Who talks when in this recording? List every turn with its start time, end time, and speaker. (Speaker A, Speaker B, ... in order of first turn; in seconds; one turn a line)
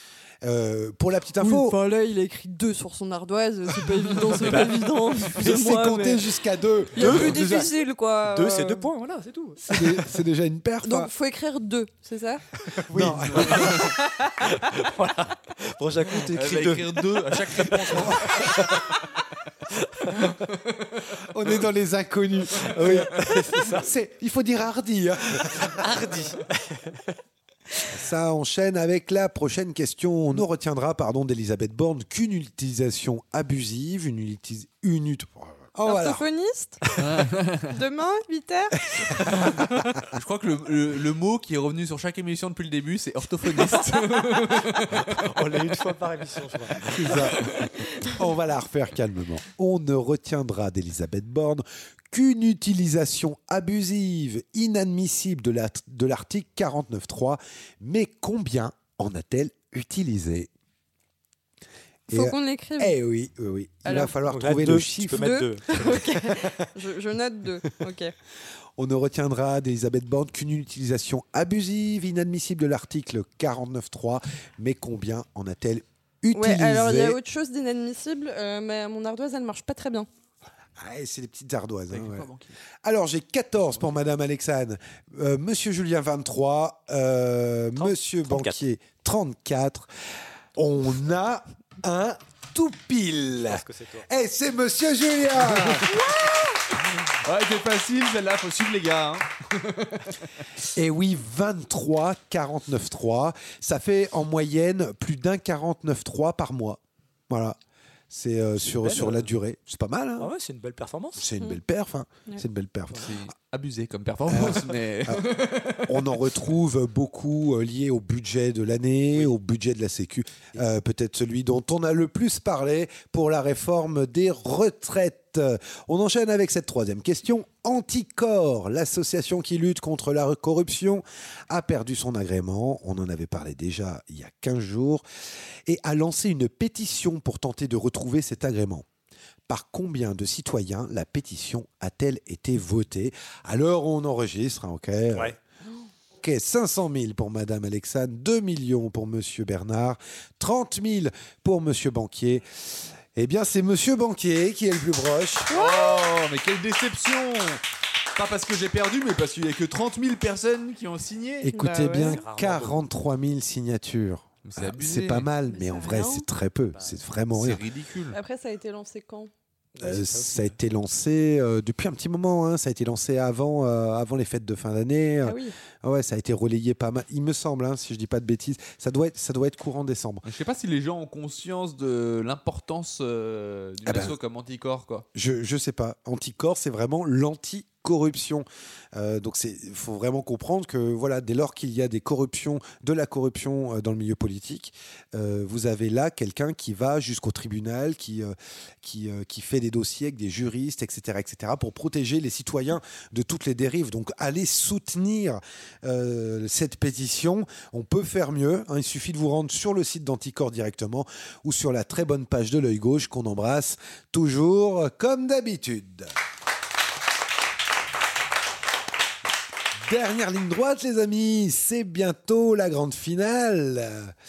Speaker A: 0.4-1.8
Speaker B: 1.4-6.2
Speaker C: 4.4-4.8
Speaker A: 5.3-7.7
Speaker B: 6.9-8.9
Speaker C: 7.0-7.7
Speaker C: 8.2-9.9
Speaker A: 9.6-11.1
Speaker B: 10.8-12.4
Speaker C: 12.7-18.9
Speaker A: 12.9-13.9
Speaker D: 13.3-13.9
Speaker B: 14.1-14.4
Speaker D: 16.3-18.6
Speaker C: 19.8-20.4
Speaker D: 20.5-21.6
Speaker A: 21.2-26.0
Speaker C: 22.6-23.9
Speaker C: 25.6-27.1
Speaker A: 27.9-36.2
Speaker B: 35.9-36.8
Speaker D: 37.0-37.7
Speaker B: 37.7-38.8
Speaker A: 38.9-39.6
Speaker D: 40.1-45.2
Speaker C: 44.9-47.3
Speaker A: 46.9-60.5
Speaker A: 62.1-65.4
Speaker B: 62.1-63.0
Speaker B: 63.9-64.1
Speaker C: 64.3-66.5
Speaker B: 65.1-68.1
Speaker A: 68.8-77.2
Speaker B: 76.3-80.1
Speaker A: 80.8-82.3
Speaker D: 81.9-82.5
Speaker A: 82.8-89.9
Speaker C: 87.8-88.6
Speaker A: 90.6-95.9
Speaker C: 93.5-94.1
Speaker B: 95.9-96.5
Speaker D: 97.2-100.2
Speaker A: 100.8-107.6
Speaker A: 108.1-110.3
Speaker C: 108.6-109.3
Speaker C: 110.2-111.2
Speaker A: 111.2-113.2
Speaker D: 113.0-116.4
Speaker A: 114.3-115.2
Speaker A: 115.8-135.1
Speaker A: 135.7-138.9
Speaker A: 139.5-145.4
Speaker A: 146.2-152.6
Speaker A: 153.2-155.5
Speaker B: 155.5-156.1
Speaker D: 155.5-157.6
Speaker D: 158.2-161.5
Speaker A: 161.4-167.6
Speaker B: 161.5-162.2
Speaker C: 162.0-162.8
Speaker D: 164.4-165.3
Speaker B: 165.5-166.3
Speaker C: 166.7-167.0
Speaker D: 167.3-168.2
Speaker B: 168.1-169.3
Speaker C: 169.8-170.6
Speaker A: 169.8-180.2
Speaker B: 175.2-175.5
Speaker D: 180.2-185.1
Speaker A: 183.8-184.1
Speaker A: 185.2-216.1
Speaker A: 219.8-224.1